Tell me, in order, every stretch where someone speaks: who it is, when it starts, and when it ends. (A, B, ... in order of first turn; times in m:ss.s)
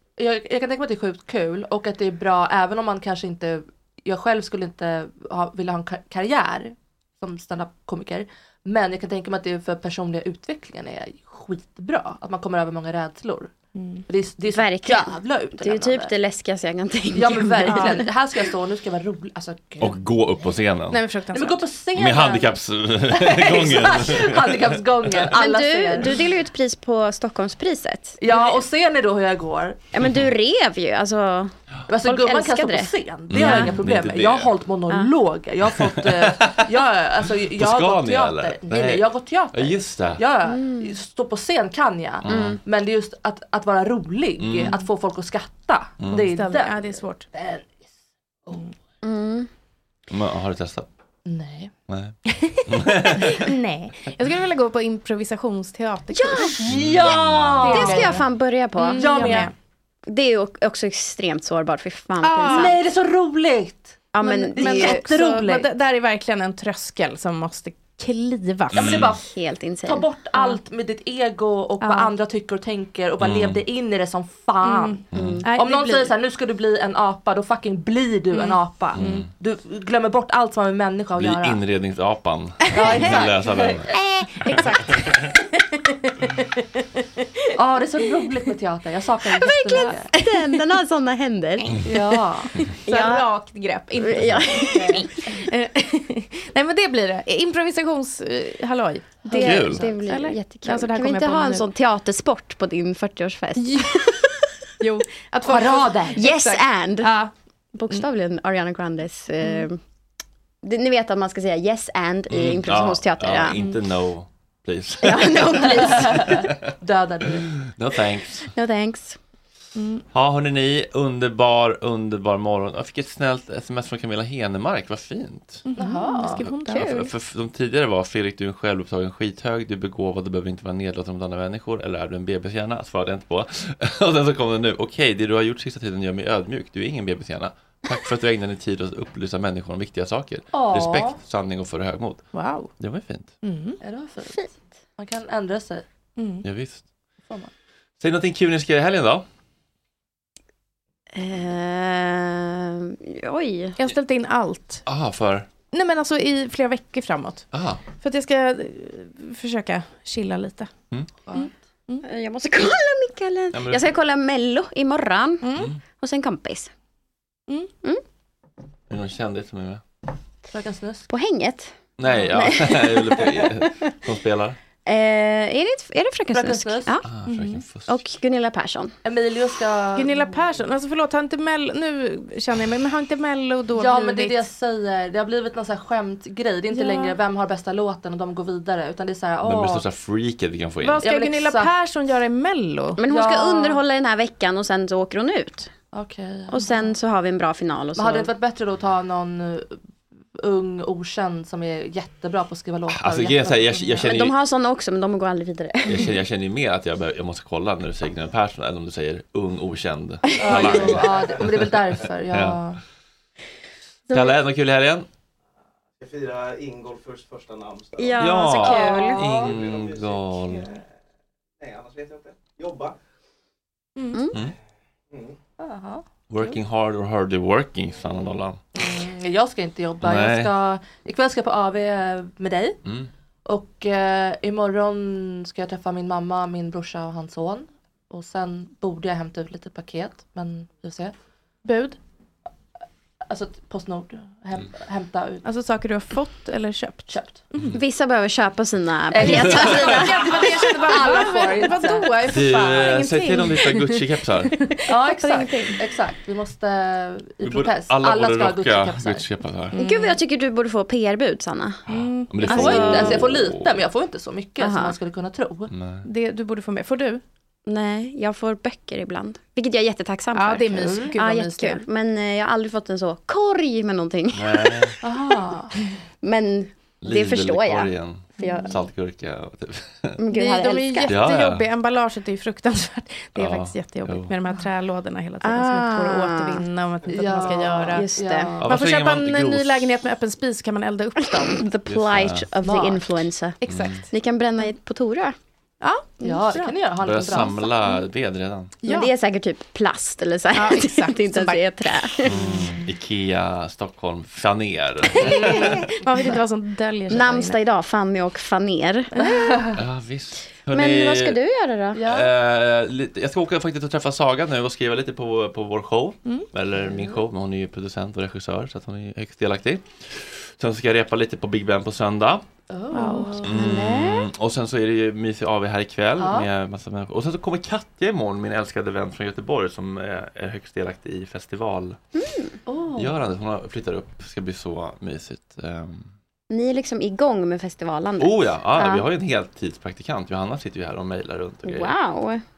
0:00.2-0:13.5 A
0:13.8-0:14.0 B
0:14.1-0:16.1 A
0:14.5-0:18.1 C
0:17.1-0:20.0 A
0:17.7-0:18.0 B
0:19.8-0:21.0 D
0:20.9-0:21.6 B
0:21.3-0:22.5 A
0:21.9-0:25.3 D
0:23.1-0:26.2 A
0:25.3-0:28.5 C
0:28.2-0:29.8 A
0:29.9-0:33.8 C
0:31.9-0:47.9 A
0:33.3-0:34.5 D
0:35.8-0:36.7 D
0:37.6-0:40.2 D
0:40.4-0:41.0 C
0:42.2-0:42.6 D
0:42.3-0:42.6 C
0:44.4-0:44.8 D
0:46.0-0:46.3 D
0:46.1-0:47.3 B
0:49.0-0:49.5 C
0:50.1-0:50.9 D
0:51.2-0:51.7 A
0:51.9-0:53.5 D
0:53.2-0:56.6 B
0:56.1-0:56.7 C
0:56.6-0:58.3 A
0:56.6-0:57.7 D
0:57.6-0:58.2 B
0:57.7-0:59.4 C
0:58.8-0:59.5 B
0:58.9-0:59.5 A
1:00.1-1:02.8 C
1:02.2-1:02.8 B
1:02.5-1:05.7 A
1:04.1-1:05.0 C
1:04.2-1:08.9 B
1:08.7-1:09.1 D
1:08.7-1:09.3 A
1:09.2-1:10.0 C
1:09.8-1:21.6 A
1:10.3-1:10.6 B
1:11.8-1:12.1 B
1:13.2-1:13.6 D
1:14.6-1:16.1 B
1:15.1-1:15.4 D
1:15.1-1:15.4 C
1:18.3-1:19.3 B
1:18.9-1:19.3 D
1:21.2-1:23.9 D
1:22.7-1:23.2 B
1:22.7-1:23.8 A
1:23.9-1:27.5 B
1:24.6-1:25.1 D
1:27.6-1:30.1 A
1:29.3-1:32.2 C
1:29.7-1:30.5 B
1:31.6-1:31.9 B
1:31.8-1:32.6 A
1:32.6-1:41.6 B
1:32.8-1:33.2 C
1:34.0-1:35.3 C
1:34.7-1:35.0 A
1:39.3-1:44.4 C
1:39.4-1:39.8 D
1:43.6-1:44.1 B
1:44.8-1:47.3 B
1:45.4-1:46.2 A
1:46.1-1:47.1 C
1:47.7-1:49.8 C
1:49.4-1:49.7 B
1:50.6-1:53.6 C
1:52.3-1:56.6 D
1:55.0-1:56.5 C
1:55.8-1:57.5 A
1:57.3-1:58.5 D
1:58.5-1:59.2 C
1:59.8-2:00.0 B
2:00.1-2:05.6 D
2:05.6-2:06.9 B
2:05.8-2:06.4 A
2:06.4-2:07.1 C
2:06.6-2:22.2 D
2:20.5-2:21.2 A
2:22.3-2:22.7 B
2:22.8-2:23.3 D
2:23.4-2:23.8 B
2:23.8-2:24.4 A
2:25.0-2:25.8 A
2:26.2-2:26.4 B
2:26.4-2:26.8 D
2:28.0-2:29.2 D
2:31.1-2:33.8 C
2:33.8-2:34.8 B
2:34.8-2:35.5 D
2:35.7-2:37.4 B
2:37.5-2:37.8 D
2:38.0-2:40.7 B
2:41.2-2:41.5 A
2:41.3-2:42.0 B
2:42.0-2:46.7 C
2:43.5-2:43.8 D
2:45.4-2:45.7 B
2:45.5-2:45.8 D
2:48.9-2:49.8 D
2:50.5-2:51.1 A
2:51.1-2:51.7 C
2:52.0-2:54.6 D
2:52.2-2:53.7 C
2:54.8-2:57.3 C
2:56.3-2:57.0 A
2:57.0-2:57.9 D
2:57.9-2:58.9 C
2:59.0-3:00.5 A
2:59.9-3:04.4 B
3:03.7-3:09.8 A
3:06.7-3:07.2 B
3:09.4-3:11.0 D
3:10.8-3:13.0 B
3:11.0-3:11.7 A
3:13.0-3:15.7 C
3:13.1-3:13.8 A
3:15.9-3:16.9 A
3:16.5-3:18.3 C
3:18.0-3:19.8 A
3:20.4-3:24.1 A
3:22.9-3:24.3 D
3:24.0-3:26.2 C
3:25.8-3:32.6 D
3:30.3-3:30.9 C
3:30.4-3:32.8 A
3:31.0-3:31.4 E
3:34.1-3:35.1 D
3:36.0-3:40.8 E
3:38.0-3:39.2 C
3:38.2-3:40.7 D
3:41.6-3:43.0 E
3:44.0-3:44.2 B
3:45.1-3:45.4 E
3:45.6-3:46.0 A
3:46.3-3:48.6 D
3:48.7-3:52.8 A
3:50.0-3:50.5 D
3:53.4-4:01.1 A
4:01.6-4:02.0 B
4:03.3-4:05.4 A
4:05.4-4:07.8 B
4:07.1-4:07.5 A
4:07.7-4:10.5 C
4:09.1-4:12.4 A
4:09.2-4:09.8 D
4:09.2-4:14.0 B
4:12.3-4:14.6 D
4:14.6-4:15.8 B
4:14.9-4:19.2 A
4:17.4-4:19.8 D
4:19.7-4:20.2 B
4:19.8-4:21.8 C
4:21.9-4:23.2 B
4:21.9-4:23.8 D
4:22.4-4:25.7 A
4:22.4-4:23.3 C
4:24.6-4:25.0 C
4:25.7-4:26.0 D
4:26.0-4:27.2 B
4:27.6-4:34.9 C
4:30.3-4:31.8 B
4:34.3-4:35.0 D
4:35.0-4:35.8 A
4:36.2-4:38.8 C
4:37.0-4:40.2 D
4:38.4-4:38.7 B
4:40.2-4:41.1 C
4:40.3-4:48.0 B
4:41.0-4:41.6 D
4:43.4-4:44.3 D
4:45.4-4:46.6 C
4:47.1-4:48.7 A
4:47.9-4:48.5 C
4:48.6-4:50.0 D
4:48.6-4:51.6 B
4:51.4-4:53.6 C
4:51.9-4:52.5 D
4:52.6-4:53.0 A
4:53.6-4:54.1 B
4:53.7-4:54.0 D
4:54.1-4:55.4 C
4:55.8-4:56.8 B
4:56.2-4:57.8 A
4:57.0-4:58.7 D
4:58.8-4:59.1 B
4:58.8-5:02.4 C
5:00.5-5:01.6 B
5:02.2-5:05.9 D
5:05.0-5:07.6 B
5:07.1-5:09.7 C
5:09.1-5:09.6 B
5:09.4-5:09.8 A
5:09.8-5:11.4 D
5:10.7-5:12.0 C
5:12.0-5:12.3 A
5:12.0-5:22.4 D
5:16.8-5:17.2 A
5:22.7-5:23.5 A
5:22.9-5:23.4 B
5:23.4-5:32.0 D
5:23.4-5:24.2 C
5:26.2-5:26.5 A
5:32.2-5:32.5 C
5:32.7-5:33.2 A
5:33.0-5:36.1 D
5:36.5-5:39.0 C
5:38.2-5:41.9 D
5:41.6-5:42.4 C